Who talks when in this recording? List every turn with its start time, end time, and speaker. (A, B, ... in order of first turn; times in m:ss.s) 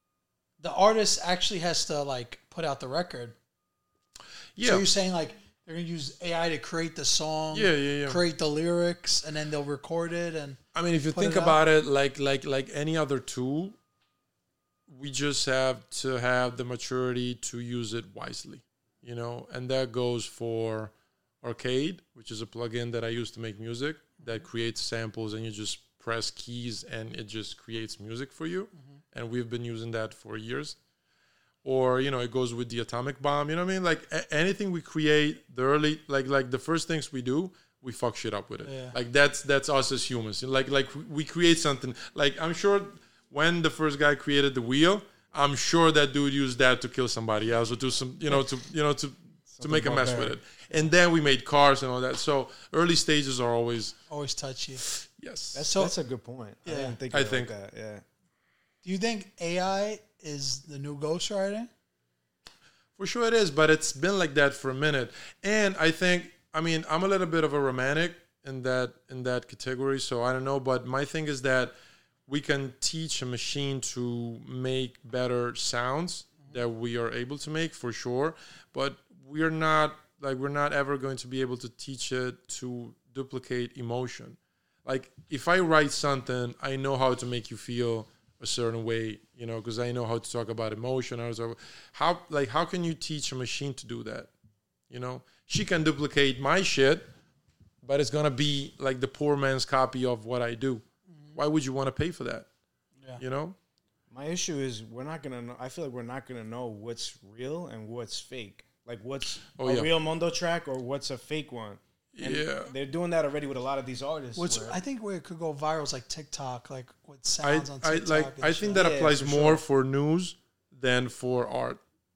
0:00.6-0:03.4 A
0:04.6-0:04.9 B
0:04.6-0:10.6 A
0:07.5-0:08.2 B
0:10.7-0:13.8 B
0:11.1-0:11.6 A
0:14.9-0:30.8 B
0:31.6-0:54.0 B
0:38.6-0:39.0 A
0:49.5-0:50.4 C
0:54.1-0:54.8 A
0:54.8-0:55.6 B
0:55.5-0:58.0 C
0:55.7-0:56.0 A
0:56.6-0:57.0 A
0:57.1-0:57.5 B
0:58.8-1:01.7 A
1:03.0-1:11.7 B
1:12.3-1:34.3 B
1:34.9-1:37.1 B
1:37.8-1:40.8 B
1:41.4-1:42.5 B
1:43.2-1:43.6 B
1:44.1-1:54.8 C
1:49.6-1:49.9 B
1:52.2-1:52.7 B
1:54.4-1:58.9 A
1:57.4-2:01.8 B
1:58.7-1:59.6 C